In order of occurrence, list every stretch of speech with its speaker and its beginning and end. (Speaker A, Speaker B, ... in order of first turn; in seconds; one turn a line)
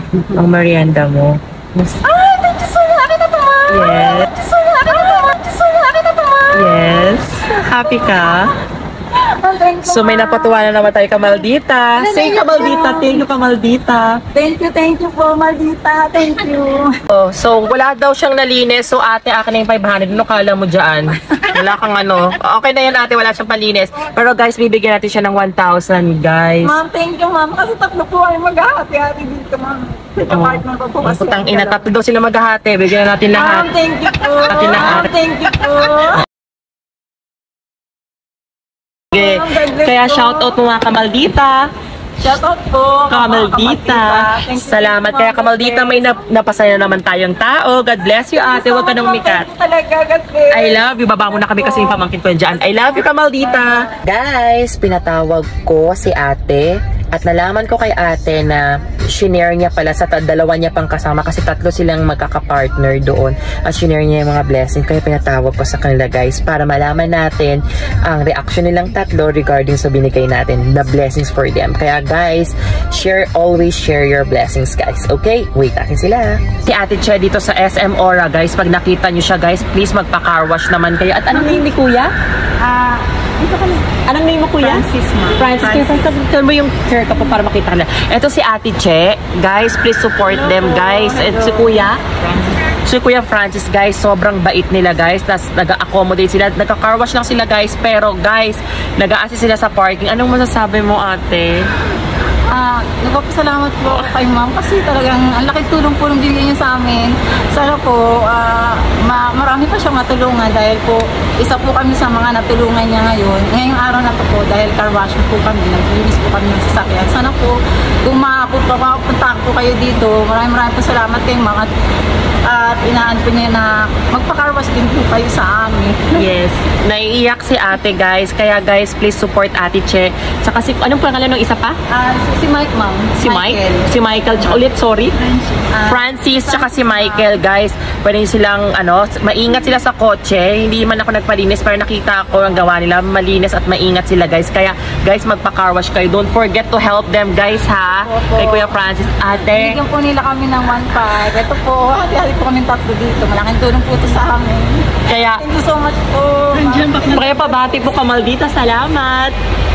Speaker A: 0.2-2.0
Speaker B: 2.0-6.8
Speaker A: 3.7-4.3
Speaker A: 6.5-8.5
Speaker B: 9.1-10.7
Speaker A: 9.8-14.2
Speaker B: 12.0-13.2
Speaker B: 14.3-16.9
Speaker A: 17.1-26.8
Speaker B: 26.6-31.8
Speaker A: 30.3-33.7
Speaker B: 33.3-36.2
Speaker A: 34.5-35.1
Speaker B: 39.1-40.5
Speaker A: 39.1-41.7
Speaker B: 42.2-46.1
Speaker A: 43.1-49.5
Speaker B: 48.2-52.0
Speaker A: 50.5-82.1
Speaker B: 53.5-53.9
Speaker B: 82.6-83.8
Speaker A: 84.1-84.8
Speaker B: 84.6-86.1
Speaker A: 85.4-92.0
Speaker B: 90.2-92.4
Speaker A: 92.7-101.7
Speaker B: 102.5-121.7
Speaker B: 122.5-126.2
Speaker A: 126.1-131.8
Speaker B: 131.9-134.6
Speaker A: 133.2-135.2
Speaker B: 135.5-137.4
Speaker A: 135.9-149.8
Speaker B: 147.8-148.7
Speaker B: 149.5-157.9
Speaker A: 155.1-155.4
Speaker A: 156.6-159.3